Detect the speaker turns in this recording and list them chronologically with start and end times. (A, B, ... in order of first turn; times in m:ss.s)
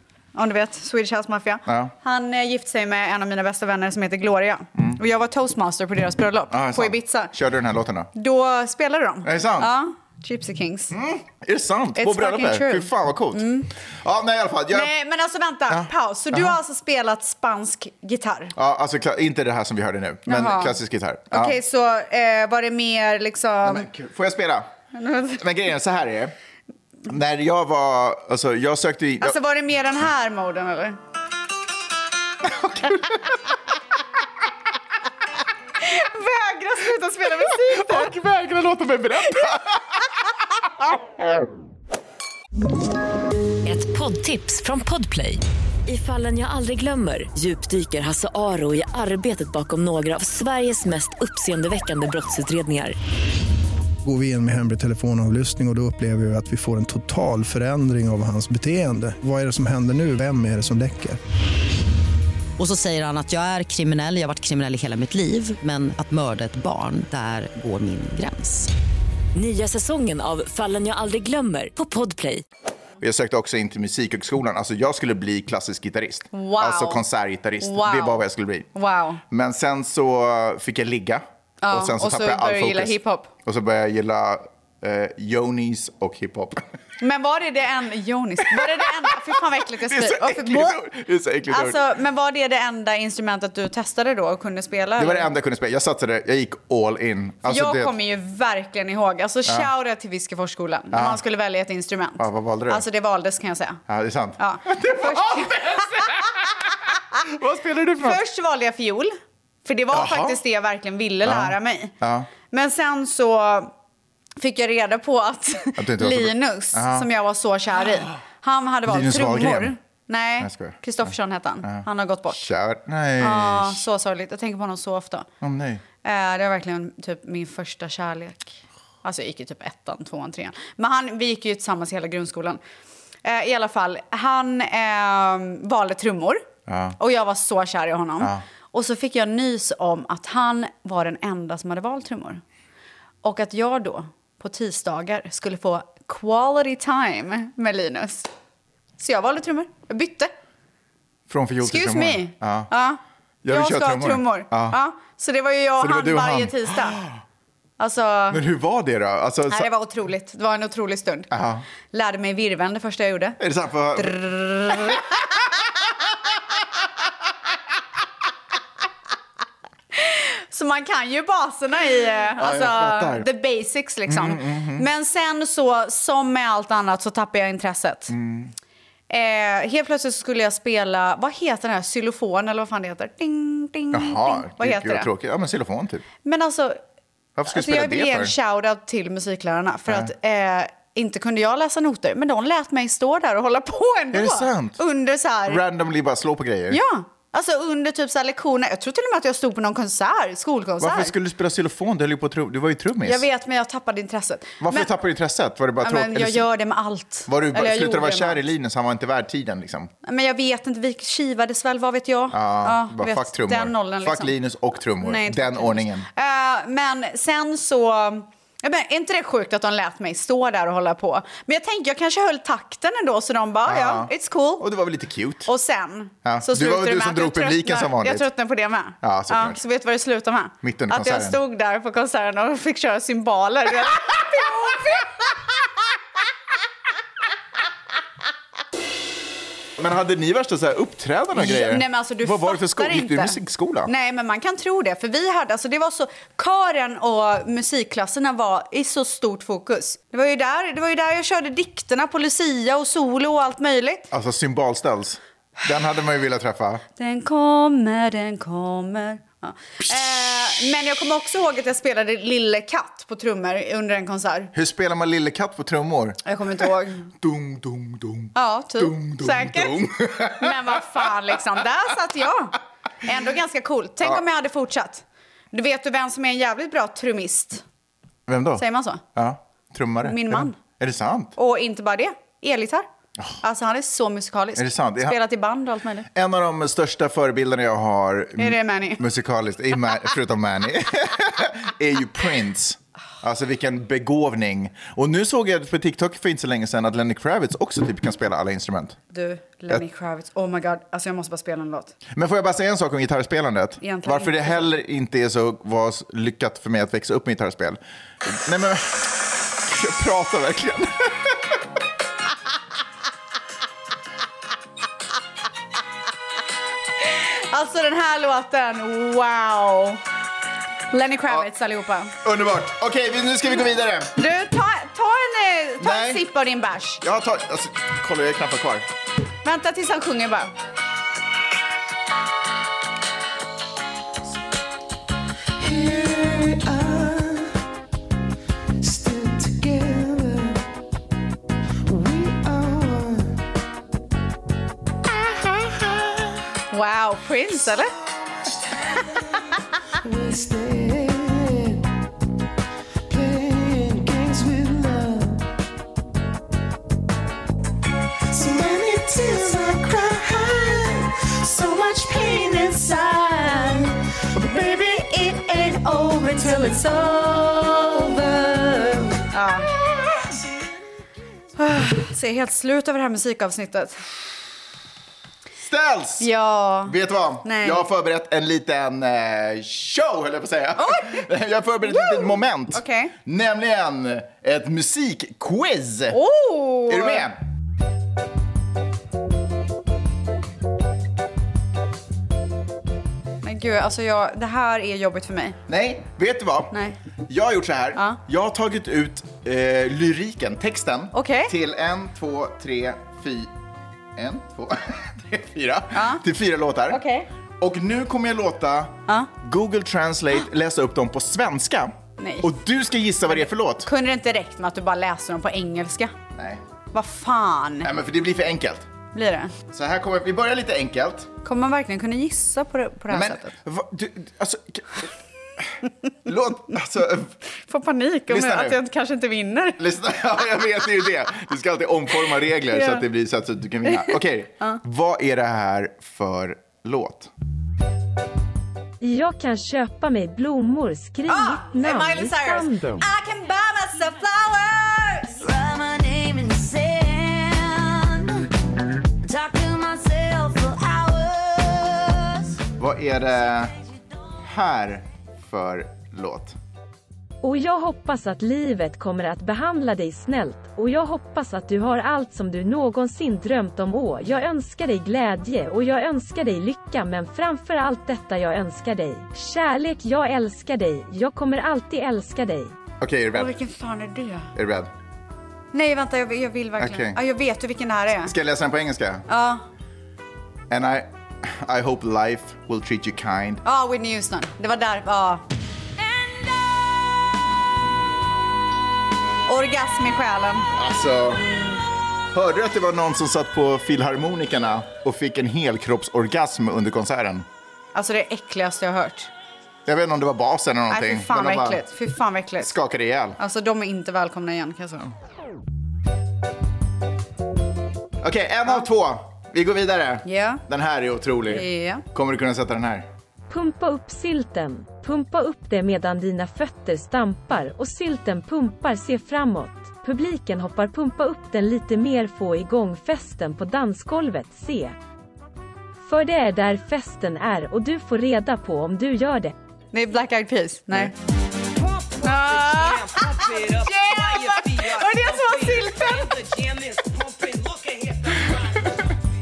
0:00.3-0:07.3 A
0:01.7-0:01.9 B
0:06.5-0:08.1 B
0:08.1-0:10.9 A
0:09.2-0:09.7 B
0:10.9-0:14.9 B
0:12.0-0:13.7 A
0:14.7-0:18.5 A
0:15.7-0:16.6 B
0:18.5-0:21.6 B
0:20.3-0:20.8 A
0:21.3-0:23.9 A
0:23.6-0:24.7 B
0:24.9-0:25.4 A
0:25.4-0:26.3 B
0:27.1-0:29.4 B
0:29.2-0:31.0 A
0:32.4-0:33.4 B
0:35.8-0:38.1 A
0:37.5-0:40.1 B
0:43.6-0:53.0 C
0:54.0-1:01.2 D
1:02.6-1:08.7 E
1:09.3-1:12.4 C
1:13.0-1:18.7 B
1:16.3-1:17.0 A
1:17.6-1:19.2 A
1:19.3-1:26.6 B
1:21.6-1:23.3 A
1:27.0-1:30.8 A
1:28.5-1:28.8 B
1:29.7-1:31.8 B
1:31.5-1:35.3 A
1:35.0-1:37.9 B
1:37.4-1:43.8 A
1:40.9-1:41.2 B
1:42.2-1:42.8 B
1:43.9-1:48.2 B
1:44.4-1:46.2 A
1:48.0-1:51.9 A
1:49.9-1:50.4 B
1:51.2-1:52.3 B
1:52.5-1:53.7 A
1:54.4-2:02.4 A
1:55.8-1:57.1 B
1:58.8-1:59.7 B
2:00.4-2:03.8 B
2:03.2-2:05.3 A
2:05.4-2:05.8 B
2:06.0-2:12.6 A
2:13.2-2:16.4 A
2:16.7-2:17.0 B
2:17.0-2:22.4 A
2:23.2-2:28.3 A
2:29.0-2:30.3 A
2:31.3-2:32.7 B
2:31.6-2:37.0 A
2:33.4-2:34.8 B
2:35.8-2:37.2 B
2:37.8-2:38.4 A
2:38.3-2:39.7 B
2:39.5-2:41.3 A
2:41.3-2:41.6 B
2:41.9-2:43.4 A
2:43.4-2:45.0 B
2:44.0-2:45.4 A
2:49.9-2:58.1 A
2:52.4-2:53.3 B
2:54.1-2:54.9 B
2:58.1-2:58.5 B
2:59.1-3:05.1 A
3:03.9-3:06.0 B
3:06.2-3:06.8 A
3:07.4-3:08.3 B
3:07.5-3:15.6 A
3:09.9-3:10.1 B
3:14.1-3:14.8 B
3:15.4-3:16.8 B
3:16.7-3:21.1 A
3:20.8-3:23.2 B
3:23.0-3:24.9 A
3:24.6-3:26.5 B
3:25.8-3:28.4 A
3:27.3-3:29.9 B
3:30.0-3:34.3 A
3:32.3-3:36.1 B
3:35.0-3:44.6 A
3:43.6-3:45.5 B
3:45.4-3:55.4 A
3:46.2-3:48.3 B
3:49.0-3:49.6 B
3:50.6-3:51.4 B
3:59.8-4:03.9 B
4:01.3-4:14.1 A
4:14.1-4:16.8 B
4:17.0-4:24.5 A
4:24.5-4:31.1 B
4:26.2-4:27.1 A
4:28.3-4:37.6 A
4:38.3-4:41.3 B
4:38.6-4:39.0 A
4:40.0-4:40.6 A
4:41.4-4:42.8 A
4:43.4-4:46.1 A
4:44.6-4:45.2 B
4:46.1-4:59.0 B
4:48.4-4:49.0 A
4:59.1-5:02.0 A
5:02.1-5:11.6 B
5:03.8-5:04.7 A
5:17.0-5:20.0 A
5:20.9-5:22.1 A
5:22.2-5:24.2 B
5:24.2-5:27.0 A
5:25.8-5:26.2 B
5:27.0-5:28.9 B
5:29.4-5:30.5 A
5:35.6-5:37.5 F
5:38.8-5:40.6 F
5:41.9-5:43.4 F
5:45.8-5:46.2 F
5:46.7-5:47.9 A
5:50.0-5:51.8 F
5:53.1-5:55.5 F
5:58.3-6:09.2 F
6:09.3-6:09.7 A
6:11.6-6:14.0 A
6:15.6-6:16.3 B
6:16.2-6:17.8 A
6:16.8-6:26.2 B
6:20.8-6:21.3 A
6:21.8-6:23.1 A
6:26.1-6:27.2 A
6:26.9-6:27.4 B
6:33.4-6:35.6 A
6:35.7-6:36.7 B
6:37.3-6:43.5 B
6:41.1-6:41.5 A
6:44.1-6:47.0 B
6:45.9-6:46.2 A
6:46.9-6:47.3 A
6:47.6-6:53.9 B
6:52.2-6:52.5 A
6:53.3-6:56.1 A
6:56.3-6:56.6 B
6:56.9-6:57.9 A
6:57.8-6:58.9 B
6:59.1-6:59.5 A
6:59.7-7:01.3 B
7:01.4-7:03.5 A
7:03.1-7:05.7 B
7:06.2-7:07.3 B
7:07.6-7:09.8 A
7:08.3-7:08.8 B
7:09.8-7:17.3 B
7:12.7-7:13.0 A
7:13.8-7:14.8 A
7:19.0-7:23.1 G
7:21.3-7:25.4 A
7:25.4-7:28.5 H
7:29.2-7:32.6 H
7:32.8-7:33.7 B
7:34.4-7:36.6 B
7:37.4-7:52.8 G
7:53.0-7:53.5 B
7:53.3-7:54.5 A
7:54.5-7:54.9 B
7:55.7-7:58.3 A
7:56.8-7:57.2 B
7:58.2-7:59.3 B
7:59.3-7:59.6 A
8:00.7-8:03.6 B
8:03.6-8:05.4 A
8:09.5-8:10.7 A
8:10.7-8:11.6 B
8:12.3-8:17.4 B
8:17.9-8:19.3 A
8:19.8-8:21.8 B
8:20.9-8:22.7 A
8:22.6-8:23.4 B
8:23.4-8:25.1 A
8:28.2-8:33.1 B
8:30.2-8:30.6 A
8:31.5-8:32.0 A
8:33.5-8:44.9 G
8:46.0-8:49.5 G
8:49.9-8:51.1 A
8:52.2-8:56.5 A
8:53.4-8:55.8 H
8:56.9-8:58.6 F
8:57.2-8:57.5 H